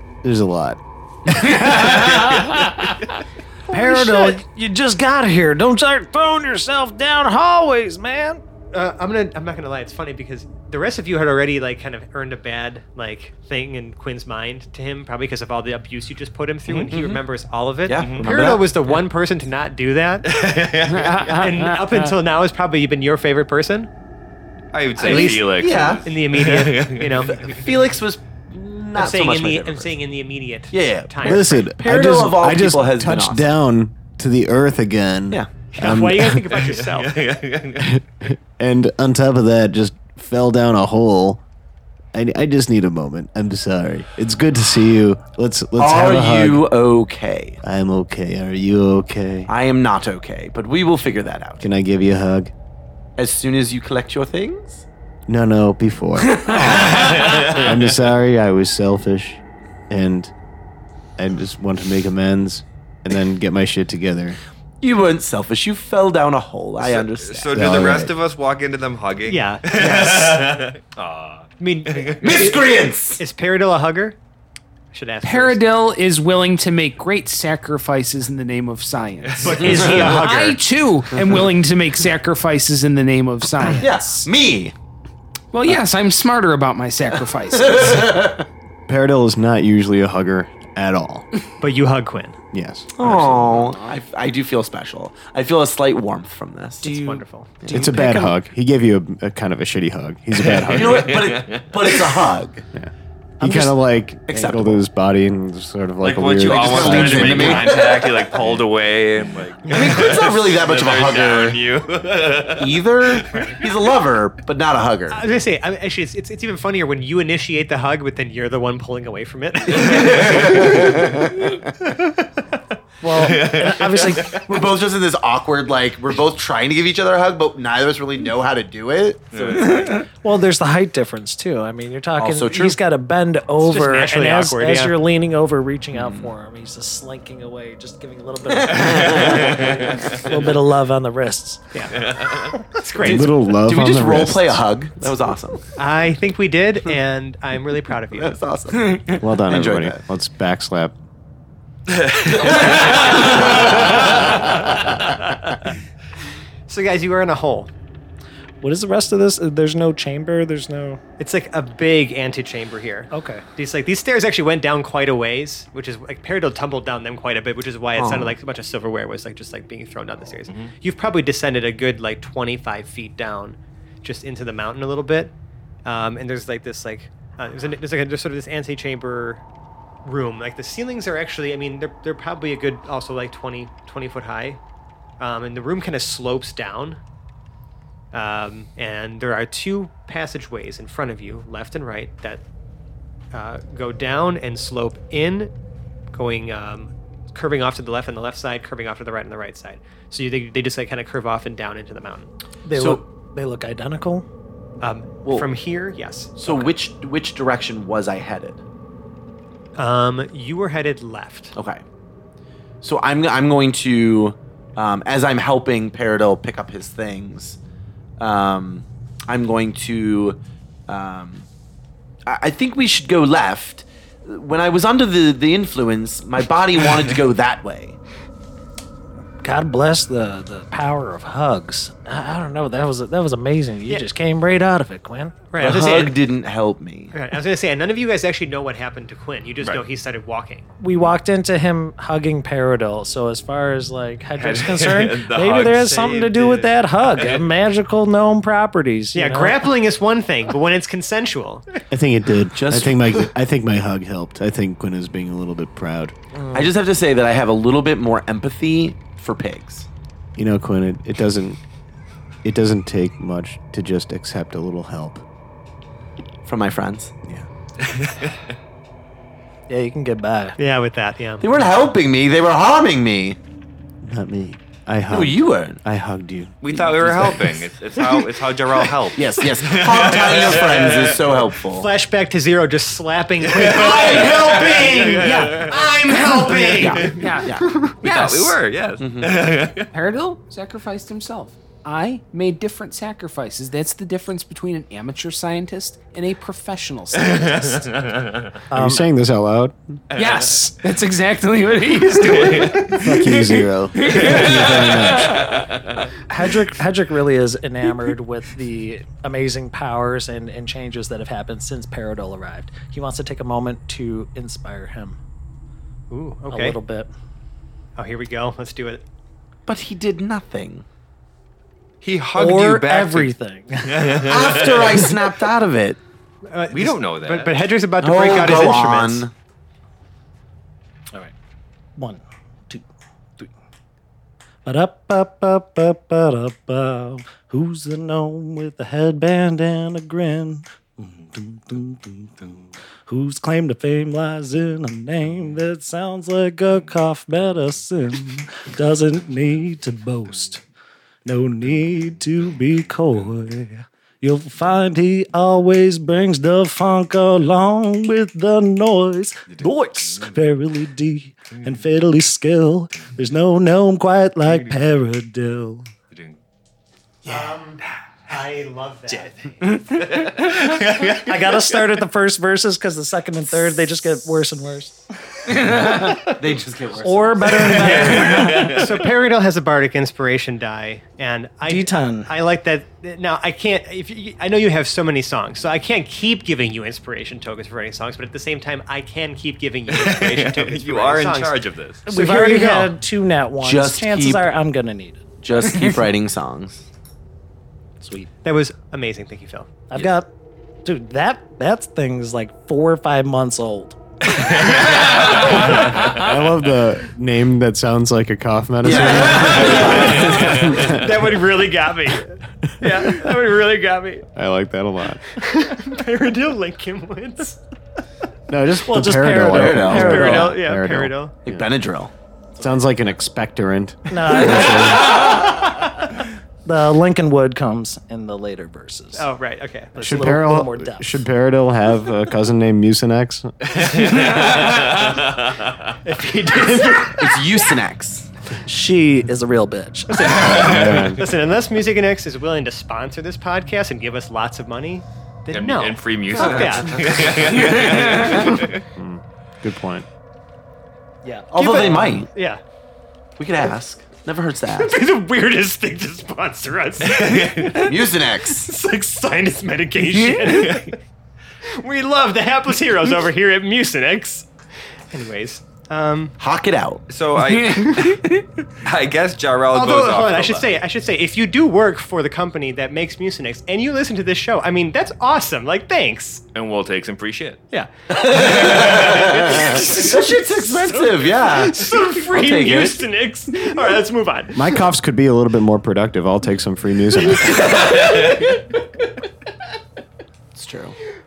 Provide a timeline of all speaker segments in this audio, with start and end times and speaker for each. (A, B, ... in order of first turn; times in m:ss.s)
0:00.2-0:02.2 A
0:01.4-0:03.1 B
0:03.7-0:04.4 C
0:03.7-0:08.4 B
0:08.7-0:20.3 C
0:16.8-0:17.2 D
0:17.8-0:18.7 D
0:18.0-0:18.3 E
0:20.2-0:21.4 E
0:20.9-0:22.0 F
0:21.3-0:23.9 C
0:24.7-0:27.3 E
0:25.0-0:26.0 D
0:25.0-0:27.7 C
0:27.3-0:29.9 D
0:29.0-0:31.6 C
0:30.7-0:33.5 D
0:31.2-0:36.4 A
0:35.7-0:37.2 C
0:36.5-0:38.0 E
0:37.8-0:41.4 A
0:42.1-0:46.6 A
0:45.8-0:47.6 D
0:47.6-0:49.5 A
0:49.5-0:51.7 D
0:51.6-0:52.5 A
0:53.2-0:54.8 D
0:55.3-1:00.3 A
0:56.7-0:57.8 E
1:01.2-1:04.4 A
1:04.8-1:08.1 D
1:06.8-1:12.5 E
1:07.5-1:08.1 A
1:09.2-1:10.3 C
1:09.8-1:10.2 F
1:11.6-1:14.2 C
1:12.2-1:13.2 D
1:14.9-1:15.6 C
1:15.2-1:24.3 F
1:19.4-1:20.6 C
1:19.6-1:20.2 D
1:23.8-1:24.7 D
1:25.5-1:28.2 F
1:27.6-1:28.4 D
1:28.9-1:31.3 A
1:31.6-1:32.4 C
1:32.5-1:32.9 A
1:32.9-1:36.9 D
1:36.8-1:38.4 F
1:36.8-1:37.7 C
1:37.6-1:37.9 D
1:37.7-1:41.2 A
1:40.4-1:42.3 E
1:40.6-1:42.6 D
1:42.7-1:47.8 A
1:43.4-1:44.8 D
1:46.0-1:53.5 E
1:46.4-1:48.3 D
1:49.7-1:50.0 C
1:49.7-1:51.6 D
1:52.6-1:55.2 D
1:53.3-1:53.6 C
1:55.1-2:01.0 C
1:59.8-2:01.4 D
1:59.8-2:00.9 E
2:03.0-2:04.4 B
2:03.1-2:04.4 E
2:04.3-2:09.9 D
2:09.3-2:10.0 E
2:10.1-2:21.6 B
2:12.2-2:12.8 D
2:13.6-2:15.0 C
2:15.9-2:16.3 D
2:18.5-2:20.3 D
2:18.9-2:19.9 E
2:21.7-2:23.4 C
2:22.0-2:22.6 E
2:23.0-2:24.6 A
2:23.0-2:25.6 D
2:25.8-2:28.4 C
2:28.1-2:30.0 D
2:29.2-2:30.9 A
2:31.9-2:33.9 E
2:32.2-2:35.2 D
2:36.7-2:37.7 C
2:38.6-2:41.0 B
2:41.2-2:55.3 C
2:43.1-2:43.4 B
2:48.0-2:48.4 D
2:55.8-2:59.4 C
3:00.0-3:04.6 C
3:05.2-3:07.0 C
3:08.1-3:12.4 C
3:13.3-3:15.5 C
3:16.1-3:22.3 C
3:22.6-3:24.2 B
3:22.7-3:23.0 D
3:24.8-3:26.7 C
3:25.2-3:25.5 D
3:26.4-3:28.6 D
3:29.8-3:31.5 C
3:31.5-3:31.8 D
3:32.8-3:37.6 D
3:38.2-3:41.5 D
3:42.2-3:48.0 D
3:49.4-3:55.5 B
3:55.5-3:56.2 C
3:55.6-3:57.1 D
3:57.1-4:00.7 C
4:00.8-4:09.6 B
4:04.4-4:07.5 E
4:09.1-4:11.7 C
4:11.9-4:16.2 A
4:12.5-4:13.3 D
4:16.5-4:19.9 D
4:20.4-4:21.6 A
4:22.4-4:25.2 A
4:26.4-4:27.1 D
4:27.8-4:28.4 E
4:29.7-4:30.6 B
4:30.6-4:31.5 C
4:31.4-4:33.4 D
4:34.0-4:37.2 A
4:35.1-4:35.8 D
4:36.6-4:41.4 E
4:39.1-4:41.9 D
4:41.7-4:47.9 C
4:43.4-4:47.0 E
4:43.7-4:45.4 D
4:44.6-4:48.6 F
4:46.5-4:47.8 D
4:48.0-4:49.9 E
4:49.0-4:49.3 D
4:49.9-4:57.9 F
4:57.1-4:58.6 E
4:58.7-4:59.0 B
4:58.7-5:00.0 A
5:00.1-5:00.6 E
5:00.1-5:05.3 F
5:02.2-5:03.0 E
5:03.0-5:05.5 A
5:04.1-5:06.1 E
5:06.3-5:15.2 B
5:16.1-5:16.8 C
5:16.5-5:17.1 B
5:18.0-5:19.0 C
5:19.7-5:20.8 D
5:22.0-5:25.1 E
5:22.3-5:24.3 B
5:24.2-5:26.0 D
5:26.4-5:29.3 C
5:26.7-5:27.6 E
5:28.0-5:29.3 D
5:32.0-5:32.8 B
5:34.6-5:50.6 B
5:51.2-6:05.9 B
5:59.5-6:00.3 E
6:06.1-6:06.4 E
6:07.2-6:09.6 C
6:09.8-6:11.8 E
6:09.8-6:16.4 B
6:16.2-6:18.1 D
6:17.0-6:18.9 B
6:17.7-6:31.6 C
6:17.9-6:18.9 E
6:21.6-6:22.3 B
6:29.9-6:32.0 E
6:32.0-6:35.2 B
6:32.1-6:32.9 C
6:33.6-6:34.5 D
6:35.4-6:36.9 D
6:38.0-6:38.3 B
6:38.4-6:39.7 C
6:39.9-6:40.3 B
6:40.8-6:44.0 B
6:44.3-6:46.2 E
6:45.6-6:51.2 A
6:48.8-6:50.9 D
6:49.6-6:54.2 C
6:49.7-6:50.8 E
6:54.3-6:55.2 A
6:55.4-6:57.6 C
6:58.5-7:01.6 A
6:58.8-7:00.6 B
6:59.5-7:00.4 D
6:59.9-7:01.3 C
7:01.4-7:02.1 D
7:02.6-7:05.2 A
7:04.1-7:09.3 B
7:09.2-7:10.3 C
7:10.0-7:11.1 B
7:10.0-7:13.7 A
7:13.7-7:15.9 E
7:16.0-7:17.5 C
7:17.1-7:18.3 D
7:18.6-7:20.2 B
7:20.1-7:28.6 C
7:20.2-7:21.3 A
7:20.3-7:21.1 E
7:25.5-7:28.8 E
7:27.7-7:28.3 F
7:28.9-7:30.0 A
7:31.2-7:31.5 B
7:31.5-7:32.3 D
7:31.5-7:32.6 C
7:33.4-7:35.0 D
7:34.8-7:38.0 C
7:37.0-7:37.8 E
7:37.8-7:38.7 D
7:38.6-7:41.0 C
7:40.1-7:40.4 F
7:40.5-7:40.9 E
7:41.6-7:44.5 C
7:45.1-7:46.3 C
7:46.4-7:47.0 D
7:47.1-7:48.2 E
7:47.4-7:48.4 F
7:48.8-7:50.8 E
7:49.7-7:56.4 C
7:56.5-7:57.6 E
7:58.1-8:03.0 D
7:58.5-8:04.7 C
7:58.7-7:59.6 E
8:04.5-8:07.8 A
8:07.7-8:08.2 C
8:07.9-8:08.2 E
8:10.5-8:11.0 D